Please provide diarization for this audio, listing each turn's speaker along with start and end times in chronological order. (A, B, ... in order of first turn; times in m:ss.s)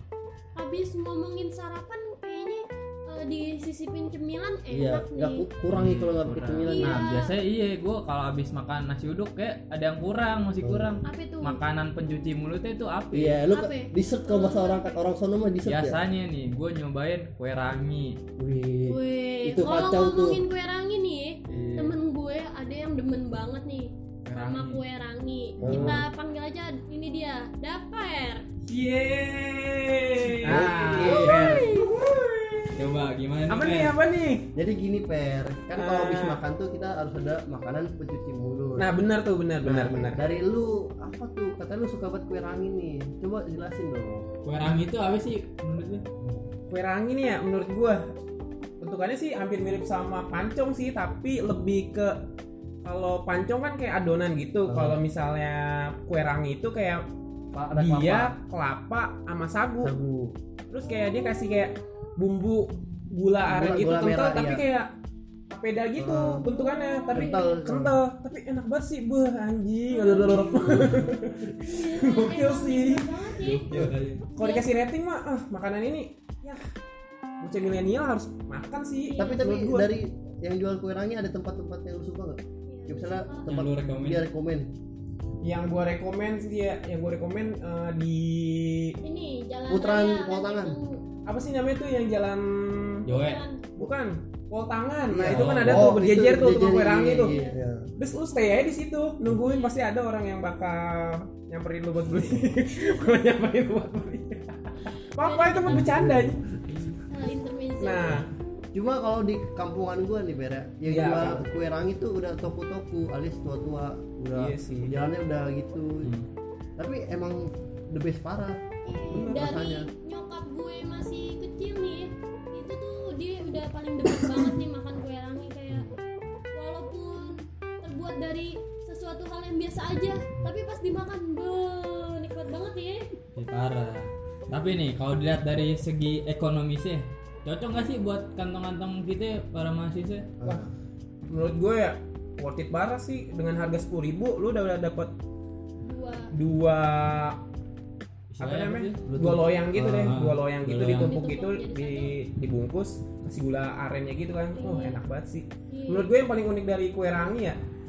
0:00.6-0:05.4 A
0:04.7-0:07.1 B
0:05.7-0:13.4 C
0:06.7-0:07.3 A
0:10.6-0:11.0 B
0:11.0-0:11.6 A
0:13.1-0:16.0 B
0:13.5-0:15.0 A
0:15.6-0:18.2 C
0:18.4-0:20.4 B
0:18.9-0:28.4 A
0:21.5-0:21.9 C
0:24.3-0:24.8 C
0:25.6-0:26.0 C
0:25.6-0:26.0 B
0:28.7-0:32.8 D
0:30.4-0:31.7 C
0:30.4-0:31.6 B
0:31.0-0:32.0 A
0:32.8-0:34.0 C
0:33.5-0:34.5 D
0:34.6-0:38.9 B
0:35.8-0:36.4 D
0:38.8-0:40.2 D
0:39.6-0:44.3 B
0:44.4-0:46.0 C
0:46.7-0:48.1 D
0:48.8-0:52.3 D
0:52.8-0:57.0 D
0:54.7-0:55.0 B
0:57.5-0:58.4 B
0:57.8-0:59.9 D
0:59.8-1:00.4 B
1:00.7-1:04.9 D
1:00.8-1:02.2 A
1:03.4-1:04.6 B
1:05.5-1:16.7 D
1:06.0-1:06.4 B
1:06.4-1:07.5 A
1:07.1-1:08.0 B
1:09.9-1:10.8 A
1:10.3-1:11.1 B
1:11.6-1:13.7 A
1:13.4-1:14.2 C
1:13.7-1:14.0 B
1:14.4-1:14.7 A
1:17.4-1:19.9 D
1:19.1-1:19.4 A
1:19.2-1:24.7 B
1:22.7-1:23.5 A
1:23.5-1:24.2 C
1:25.4-1:29.0 D
1:29.0-1:31.0 A
1:29.7-1:30.8 B
1:31.2-1:33.1 D
1:33.1-1:33.4 C
1:33.1-1:33.6 A
1:33.8-1:37.3 D
1:35.1-1:37.9 B
1:35.3-1:36.0 C
1:37.2-1:37.6 A
1:38.0-1:46.5 D
1:39.4-1:39.7 A
1:45.2-1:45.9 A
1:45.7-1:46.4 B
1:47.1-1:48.2 A
1:47.8-1:48.3 D
1:48.7-1:56.2 B
1:50.9-1:51.4 D
1:54.4-1:55.0 D
1:56.8-1:59.9 B
1:58.8-2:05.9 A
1:59.1-1:59.6 D
2:05.7-2:06.0 B
2:06.5-2:13.1 A
2:13.4-2:20.3 C
2:20.4-2:20.7 B
2:21.3-2:25.2 D
2:25.8-2:26.3 A
2:26.3-2:27.4 D
2:28.3-2:29.0 C
2:28.4-2:37.6 D
2:29.1-2:30.1 B
2:29.8-2:31.2 C
2:30.8-2:32.1 A
2:34.6-2:35.0 A
2:35.7-2:36.1 A